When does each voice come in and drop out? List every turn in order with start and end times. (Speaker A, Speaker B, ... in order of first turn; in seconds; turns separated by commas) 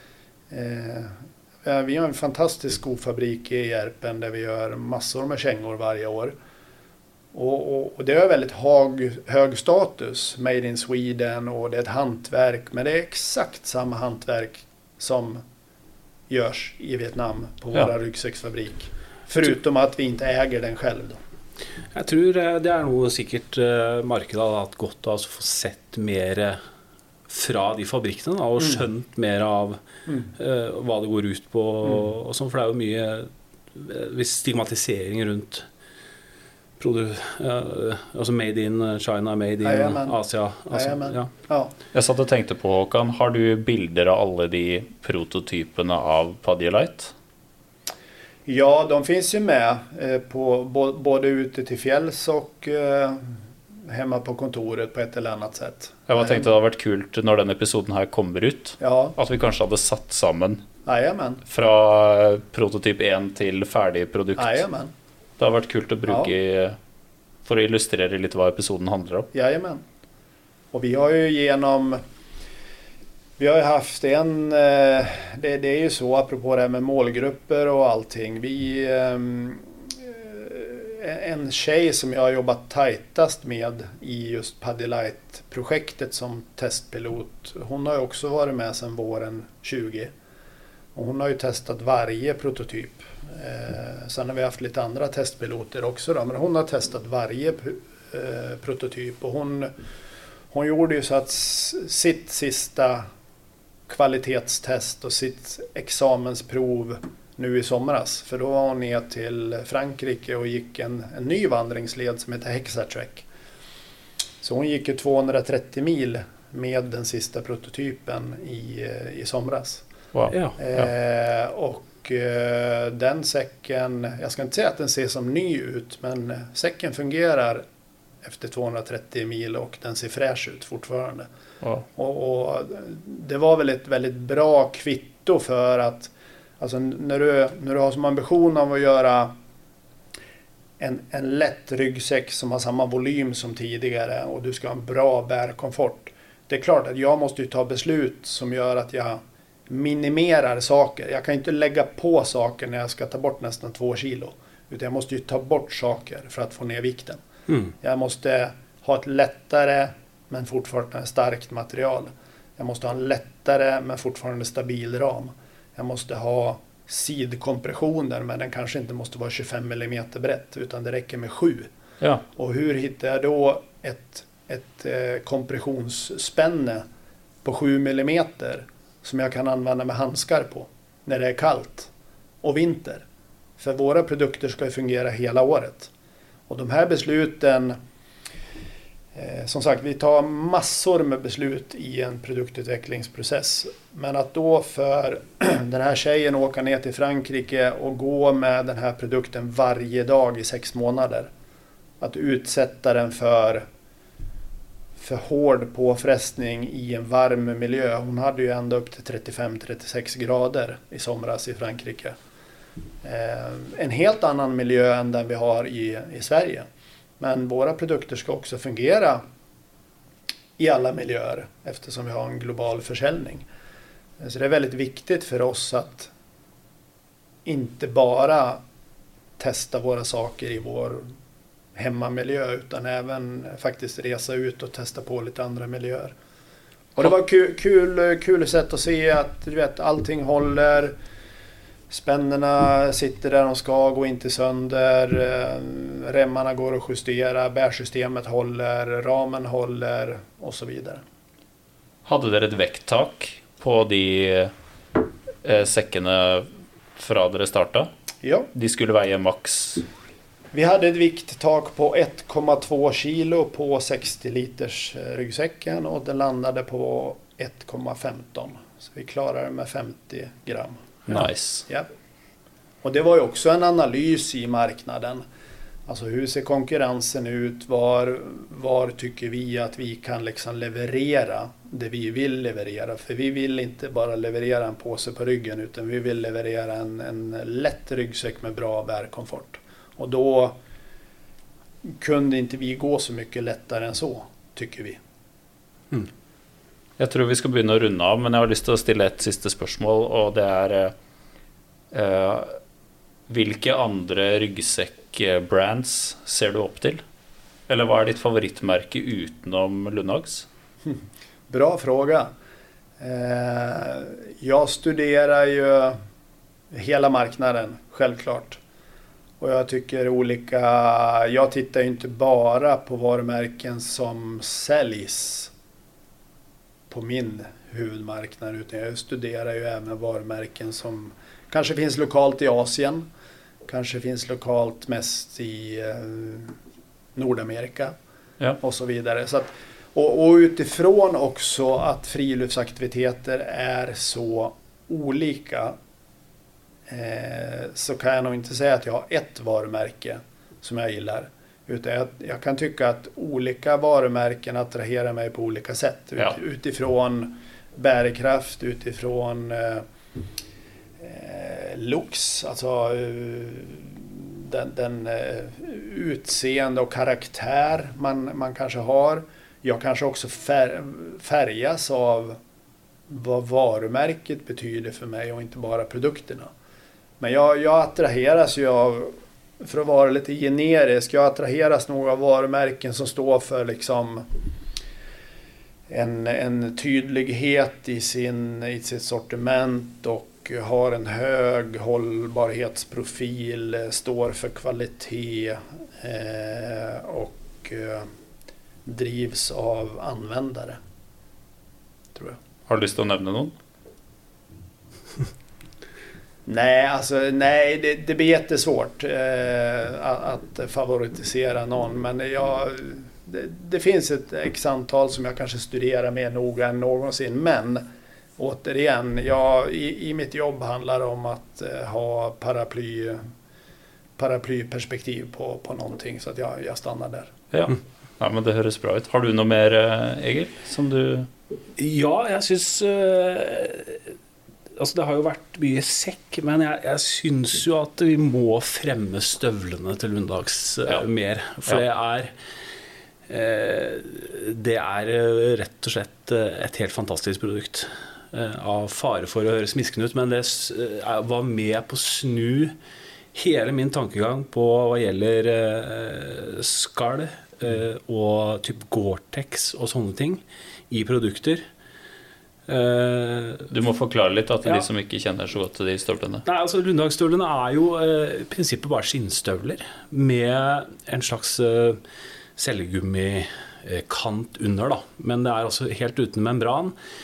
Speaker A: 0.5-6.3, Speaker A: 7.3-15.4, Speaker A: 16.3-21.2, Speaker B: 21.9-26.6, Speaker B: 27.3-35.6, Speaker B: 36.8-41.3, Speaker A: 39.6-40.1, Speaker A: 40.7-41.7, Speaker C: 41.9-47.1, Speaker A: 48.5-56.5, Speaker C: 56.1-60.6, Speaker A: 58.8-59.1, Speaker A: 60.9-61.4, Speaker C: 61.5-64.6, Speaker A: 64.4-64.9, Speaker C: 65.4-66.8, Speaker A: 66.1-66.3, Speaker C: 67.4-69.3, Speaker A: 69.3-69.8, Speaker A: 70.7-72.0, Speaker A: 73.4-90.1, Speaker A: 90.9-99.7, Speaker A: 100.5-103.0, Speaker A: 103.9-113.2, Speaker A: 114.4-119.8, Speaker C: 120.1-120.9, Speaker B: 120.3-120.5, Speaker A: 120.6-127.6, Speaker A: 128.2-131.3, Speaker A: 131.9-139.3, Speaker A: 140.8-157.2, Speaker A: 157.8-171.7, Speaker A: 172.3-176.8, Speaker A: 177.4-181.9, Speaker A: 182.4-183.0, Speaker A: 183.6-185.9, Speaker A: 186.5-187.8, Speaker A: 189.1-201.3, Speaker A: 202.0-203.7, Speaker A: 205.0-212.2, Speaker A: 213.0-216.7, Speaker A: 217.2-219.2, Speaker A: 220.6-223.4, Speaker A: 224.2-226.1, Speaker A: 227.4-228.6, Speaker A: 229.4-231.0, Speaker A: 231.7-236.1, Speaker A: 237.0-240.9, Speaker A: 241.9-251.0, Speaker C: 252.1-254.5, Speaker C: 255.4-257.9, Speaker A: 258.2-258.5, Speaker C: 258.5-259.8, Speaker A: 260.5-271.9, Speaker C: 271.1-271.7, Speaker A: 272.8-275.2, Speaker A: 275.9-290.6, Speaker A: 291.8-295.0, Speaker C: 297.0-300.9, Speaker C: 301.9-302.6, Speaker C: 303.3-307.0, Speaker C: 307.7-310.5, Speaker A: 311.5-312.3, Speaker A: 313.0-315.9, Speaker A: 316.7-318.6, Speaker A: 319.4-325.5, Speaker A: 326.9-333.1, Speaker A: 333.7-336.6, Speaker A: 337.1-337.9, Speaker A: 338.6-345.7, Speaker A: 346.9-359.8, Speaker A: 361.0-372.4, Speaker A: 373.1-376.5, Speaker A: 377.2-384.3, Speaker A: 385.9-398.1, Speaker A: 398.8-400.8, Speaker C: 402.7-403.5, Speaker A: 406.4-417.8, Speaker A: 418.4-423.2, Speaker A: 424.2-427.3, Speaker C: 427.5-431.3, Speaker B: 431.8-434.1, Speaker B: 434.8-442.3, Speaker B: 443.3-452.7, Speaker B: 453.3-461.6, Speaker B: 462.7-463.7, Speaker C: 463.7-466.4, Speaker B: 466.4-472.0, Speaker B: 472.6-476.9